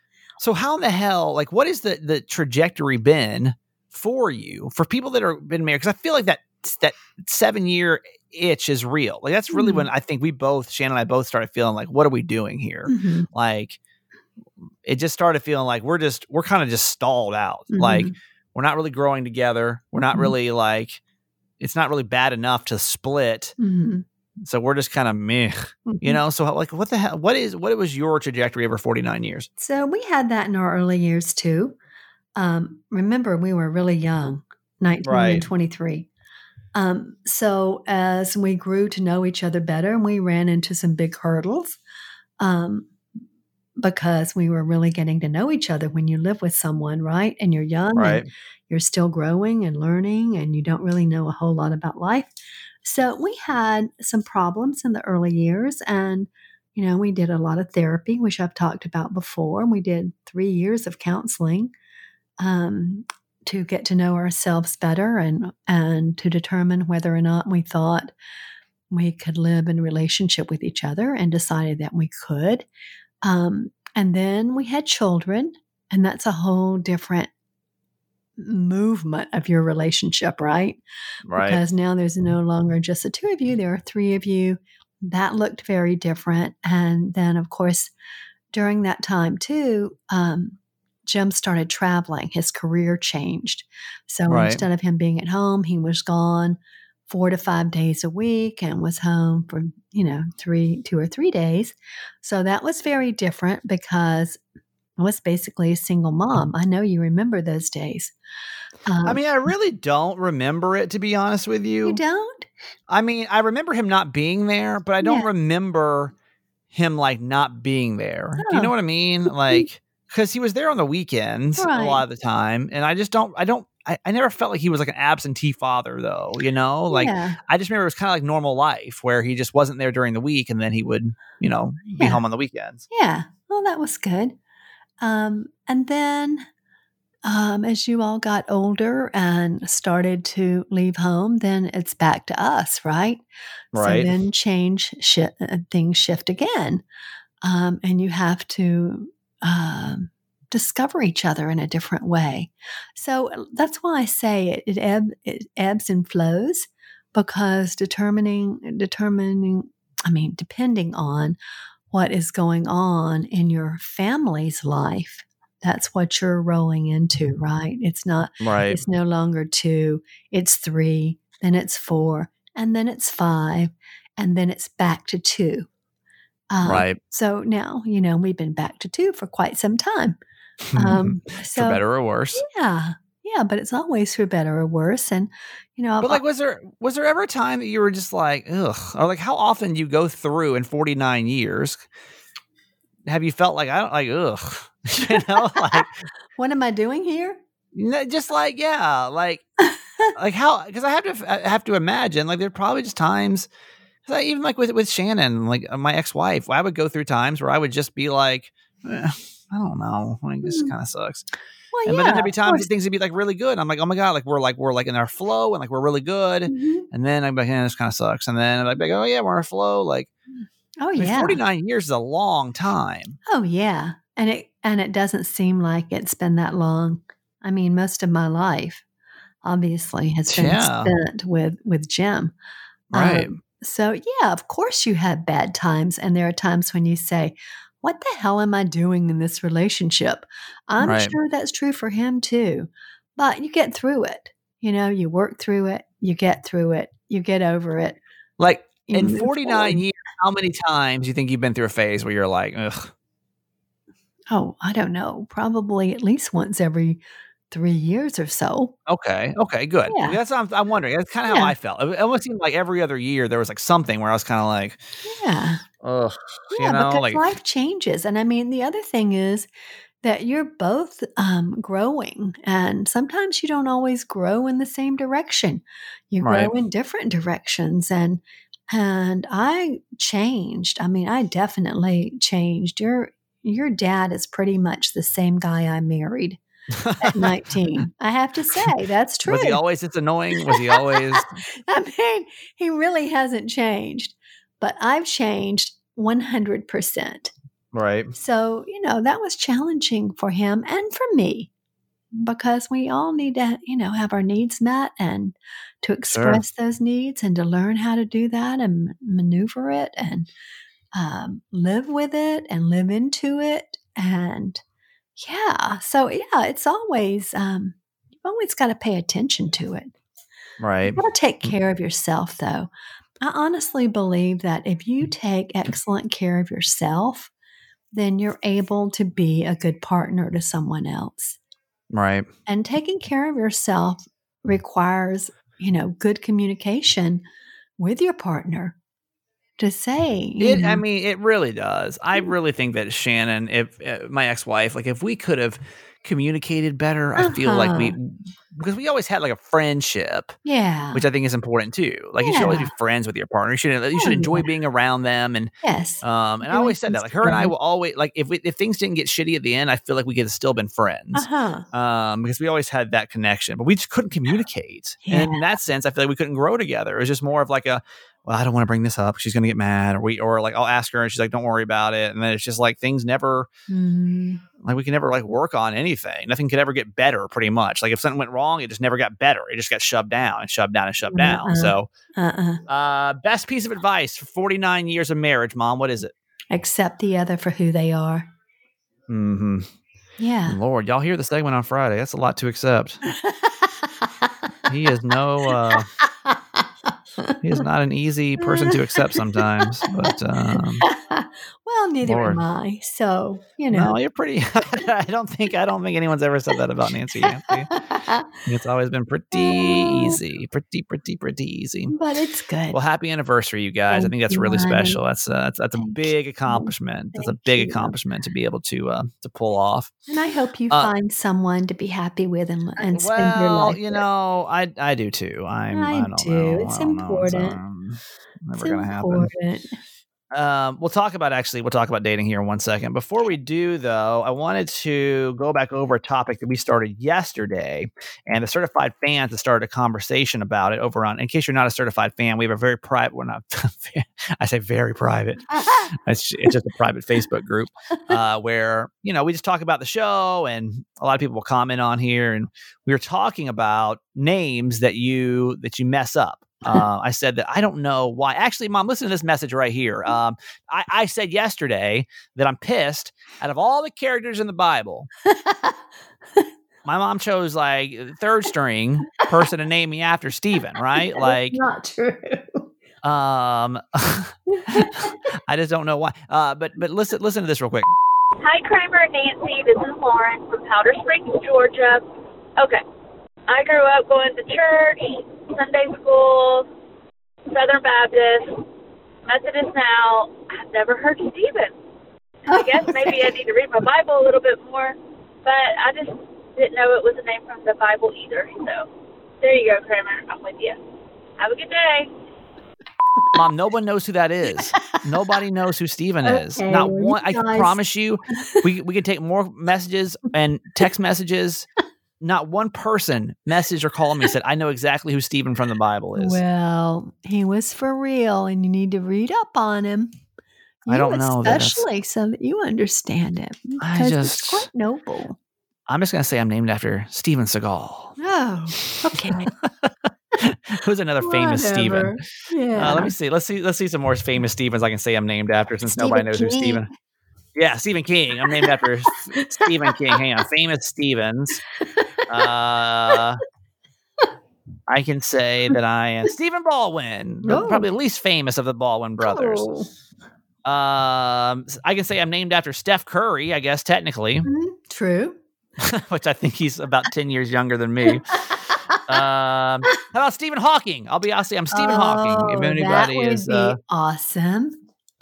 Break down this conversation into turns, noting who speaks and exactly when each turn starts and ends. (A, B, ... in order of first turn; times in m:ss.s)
0:00.4-0:13.8 A
0:09.5-0:09.9 B
0:12.9-0:13.3 B
0:14.8-0:21.0 A
0:17.7-0:18.1 B
0:21.6-0:23.5 A
0:23.6-0:24.0 B
0:24.4-0:29.5 A
0:25.8-0:26.2 B
0:29.6-0:31.8 B
0:32.4-0:36.1 B
0:35.0-0:35.4 A
0:36.7-0:41.8 B
0:42.4-0:42.9 B
0:43.8-1:01.7 B
0:47.9-0:48.3 A
1:02.4-1:08.1 B
1:08.9-1:12.7 B
1:13.2-1:17.3 B
1:18.4-1:20.8 B
1:21.2-1:21.6 A
1:21.4-1:27.9 B
1:28.5-1:44.4 B
1:34.3-1:34.6 A
1:45.0-1:48.1 B
1:48.8-1:49.2 B
1:49.0-1:52.0 A
1:51.8-1:52.5 B
1:52.9-1:56.1 A
1:55.0-1:55.3 B
1:56.7-2:12.8 A
1:58.4-1:58.7 B
1:59.3-1:59.7 B
2:01.6-2:02.0 B
2:06.9-2:07.4 B
2:11.9-2:12.2 B
2:12.9-2:14.4 B
2:15.0-2:16.5 B
2:17.2-2:26.8 B
2:23.7-2:24.1 A
2:27.4-2:41.4 B
2:41.9-2:55.7 B
2:48.4-2:48.8 A
2:56.5-3:00.2 B
2:56.6-2:57.0 A
3:00.7-3:02.4 A
3:00.7-3:01.8 B
3:02.3-3:06.2 B
3:06.0-3:11.8 A
3:13.1-3:16.0 A
3:15.0-3:15.8 B
3:16.4-3:17.4 B
3:17.7-3:19.4 A
3:20.1-3:23.5 A
3:24.0-3:31.2 A
3:30.4-3:30.7 B
3:31.7-3:32.7 B
3:31.8-3:40.1 A
3:36.5-3:36.8 B
3:40.8-3:41.4 B
3:41.0-3:43.2 A
3:43.2-3:48.8 B
3:49.4-3:52.3 B
3:50.3-3:50.9 A
3:52.9-3:53.4 A
3:52.9-4:08.0 B
4:00.8-4:01.1 A
4:08.4-4:12.9 A
4:08.9-4:09.8 B
4:14.3-4:18.7 B
4:18.9-4:24.8 A
4:19.9-4:20.2 B
4:21.3-4:21.5 B
4:25.0-4:25.6 B
4:25.8-4:27.3 A
4:26.5-4:29.5 B
4:30.0-4:46.4 B
4:36.2-4:36.5 A
4:46.7-4:47.3 A
4:47.0-4:49.6 B
4:49.2-4:51.4 A
4:50.4-4:57.3 B
4:57.7-4:58.1 A
4:58.1-5:01.5 B
5:02.1-5:10.3 B
5:06.1-5:06.4 A
5:10.9-5:14.6 B
5:15.2-5:19.9 B
5:20.6-5:21.0 A
5:20.9-5:27.3 B
5:27.9-5:31.4 B
5:31.9-5:32.3 A
5:32.5-5:37.2 B
5:37.8-5:38.8 B
5:39.6-5:40.8 B
5:40.4-5:50.3 A
5:47.2-5:48.0 B
5:50.4-5:51.0 B
5:50.9-6:13.5 A
5:52.2-5:52.7 B
5:54.0-5:54.5 B
5:55.6-5:57.5 B
6:01.1-6:01.6 B
6:05.0-6:05.4 B
6:13.7-6:14.4 B
6:14.6-6:21.9 A
6:21.1-6:22.6 B
6:22.7-6:26.1 A
6:26.5-6:28.3 B
6:29.1-6:29.7 A
6:30.2-6:30.6 B
6:30.5-6:33.0 A
6:33.1-6:34.2 B
6:34.7-6:35.9 A
6:36.0-6:36.6 B
6:37.2-6:37.6 B
6:37.4-6:40.9 A
6:38.4-6:40.1 B
6:40.8-6:43.9 B
6:42.0-6:42.4 A
6:43.7-6:47.7 A
6:47.2-6:48.3 B
6:48.4-6:51.9 A
6:49.3-6:50.2 B
6:51.9-6:52.8 B
6:52.7-6:59.9 A
6:53.9-6:55.0 B
6:55.8-6:57.9 B
7:00.1-7:04.0 B
7:02.9-7:09.3 A
7:05.7-7:07.6 B
7:08.5-7:09.8 B
7:10.3-7:45.1 A
7:25.6-7:25.9 B
7:45.2-7:45.8 B
7:46.8-7:51.6 A
7:51.0-7:52.7 B
7:53.0-7:57.9 A
7:54.7-7:55.0 B
7:58.4-8:02.0 C
8:02.6-8:02.8 C
8:03.5-8:06.6 C
8:07.5-8:08.6 C
8:09.2-8:11.8 C
8:12.4-8:18.9 C
8:12.5-8:13.3 B
8:19.4-8:20.8 C
8:21.4-8:22.1 C
8:23.3-8:31.7 A
8:26.2-8:27.8 B
8:28.4-8:28.7 B
8:32.2-8:36.4 A
8:36.2-8:40.1 B
8:40.8-8:45.4 B
8:40.9-8:41.8 A
8:43.8-8:44.7 A
8:45.9-8:48.2 A
8:48.2-8:49.5 B
8:48.8-8:52.2 A
8:51.2-8:53.1 B
8:52.7-8:56.9 A
8:55.8-8:56.9 B
8:57.5-9:01.6 A
8:58.4-8:58.7 B
8:59.4-9:00.2 B
9:01.8-9:02.5 B
9:02.3-9:03.4 A
9:04.9-9:09.7 A
9:07.4-9:07.8 B
9:09.2-9:09.9 B
9:10.6-9:14.5 A
9:14.4-9:15.4 B
9:15.8-9:18.4 A
9:18.7-9:19.2 B
9:19.1-9:23.8 A
9:21.7-9:24.8 B